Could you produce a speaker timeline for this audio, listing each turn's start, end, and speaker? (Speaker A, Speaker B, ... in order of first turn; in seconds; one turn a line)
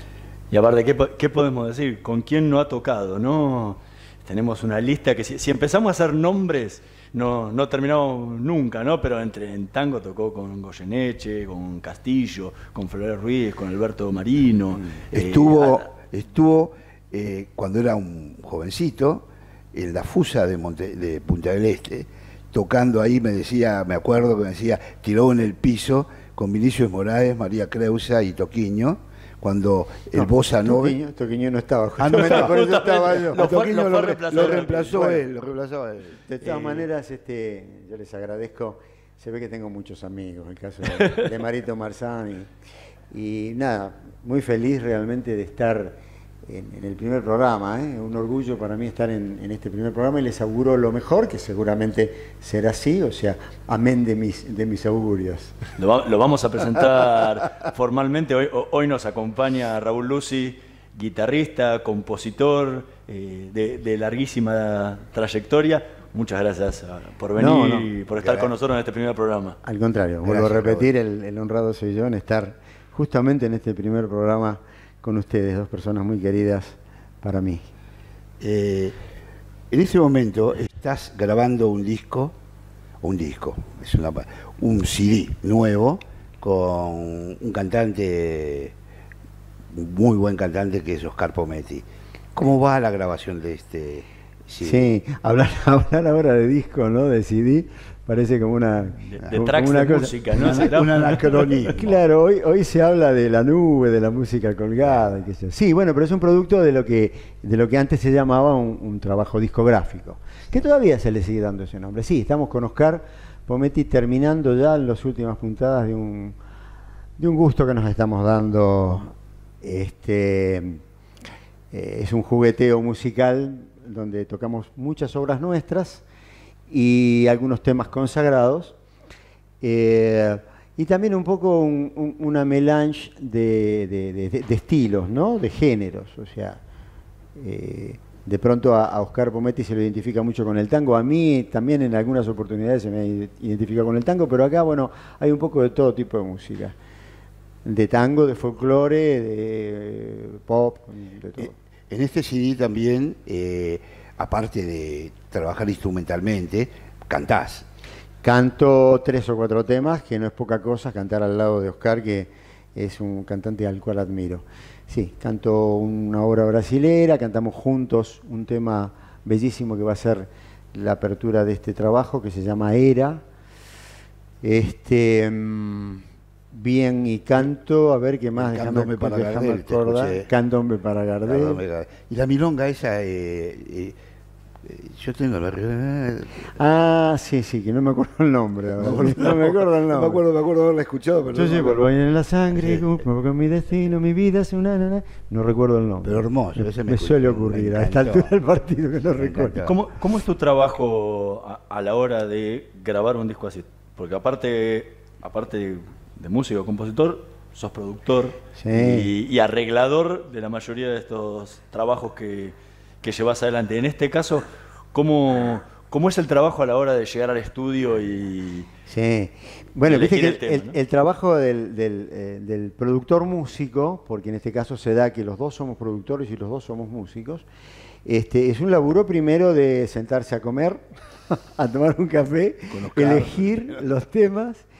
Speaker A: 0.5-15.9
Speaker B: 15.1-31.0
Speaker C: 30.1-33.5
Speaker B: 32.0-36.9
Speaker A: 32.1-35.1
Speaker C: 34.3-35.2
Speaker C: 36.3-42.5
Speaker C: 43.1-55.5
Speaker A: 55.8-69.6
Speaker C: 67.4-67.9
Speaker B: 68.2-68.5
Speaker C: 69.6-77.6
Speaker B: 70.2-70.9
Speaker B: 78.4-79.0
Speaker B: 79.7-82.3
Speaker B: 83.0-88.8
Speaker B: 89.7-94.8
Speaker C: 94.7-100.7
Speaker A: 99.1-101.5
Speaker B: 100.3-102.0
Speaker C: 101.7-116.3
Speaker C: 117.2-120.8
Speaker C: 121.7-126.0
Speaker C: 126.7-128.8
Speaker C: 129.6-136.6
Speaker C: 137.3-146.8
Speaker C: 147.7-151.5
Speaker B: 151.4-157.7
Speaker C: 158.2-173.2
Speaker C: 174.4-181.6
Speaker B: 178.3-180.3
Speaker B: 181.2-184.0
Speaker B: 184.6-186.5
Speaker C: 186.6-190.2
Speaker B: 188.8-191.9
Speaker C: 191.3-196.2
Speaker B: 192.5-192.8
Speaker B: 196.0-198.3
Speaker C: 196.9-199.7
Speaker B: 199.2-199.8
Speaker A: 199.7-218.7
Speaker C: 208.6-209.1
Speaker C: 218.9-227.5
Speaker A: 219.9-220.8
Speaker C: 228.0-234.7
Speaker B: 232.7-233.8